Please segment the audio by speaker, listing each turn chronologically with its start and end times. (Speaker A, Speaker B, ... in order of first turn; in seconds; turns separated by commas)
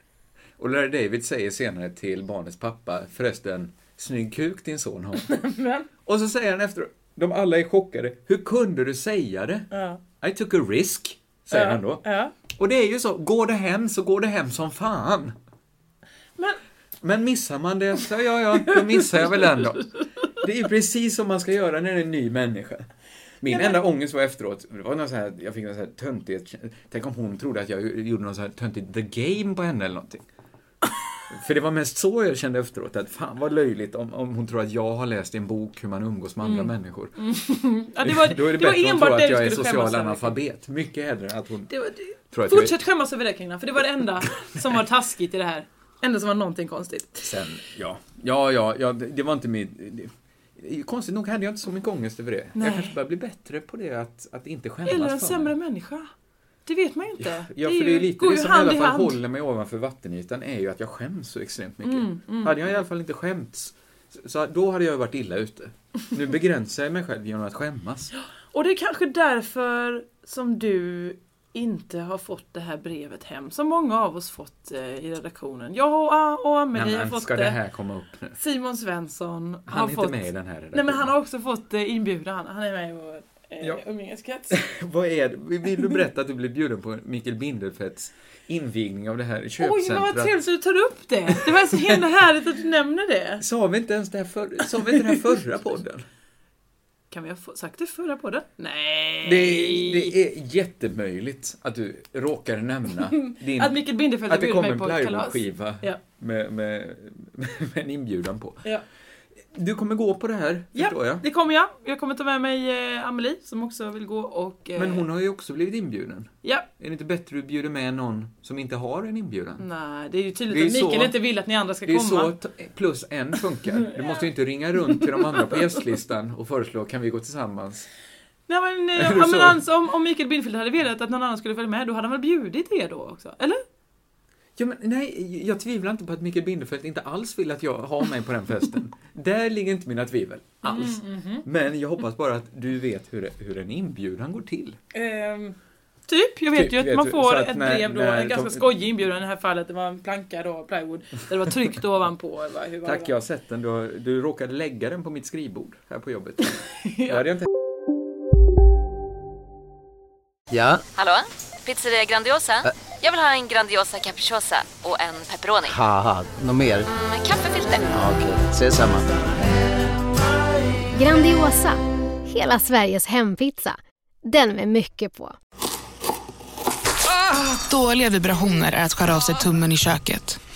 Speaker A: 0.6-5.3, Speaker B: 5.3-5.9, Speaker A: 6.0-9.7, Speaker B: 9.7-10.0, Speaker A: 10.2-15.3, Speaker B: 11.5-12.3, Speaker A: 17.0-19.8, Speaker B: 18.7-20.0, Speaker A: 20.4-22.9, Speaker A: 23.4-30.2, Speaker B: 23.5-23.8, Speaker A: 31.3-37.2, Speaker B: 36.4-40.4, Speaker A: 38.0-41.7, Speaker B: 41.7-47.3, Speaker A: 42.3-42.8, Speaker A: 47.2-55.5, Speaker B: 52.6-52.9, Speaker B: 54.9-56.1, Speaker B: 56.7-59.2, Speaker A: 57.2-68.1, Speaker B: 61.8-62.8, Speaker B: 68.5-77.6, Speaker A: 76.7-78.4, Speaker B: 78.4-84.6, Speaker A: 79.7-81.1, Speaker A: 84.5-90.3, Speaker B: 89.6-93.4, Speaker A: 91.3-92.0, Speaker A: 93.4-96.1, Speaker B: 97.1-100.1, Speaker A: 99.2-108.7, Speaker B: 103.1-106.0, Speaker A: 109.5-111.2, Speaker B: 110.8-115.1, Speaker A: 114.8-119.7, Speaker B: 119.6-122.3, Speaker A: 120.5-121.2, Speaker A: 121.8-127.9, Speaker B: 123.8-124.2, Speaker B: 128.5-133.6, Speaker A: 129.0-129.6, Speaker A: 134.6-144.8, Speaker B: 140.6-141.5, Speaker B: 144.9-145.6, Speaker B: 146.1-153.1, Speaker A: 146.5-148.8, Speaker A: 152.8-157.5, Speaker B: 156.8-157.2, Speaker C: 160.5-160.8, Speaker D: 160.9-165.7, Speaker C: 165.7-166.9, Speaker D: 166.9-167.9, Speaker C: 167.9-169.2, Speaker E: 171.0-175.4, Speaker F: 177.2-180.4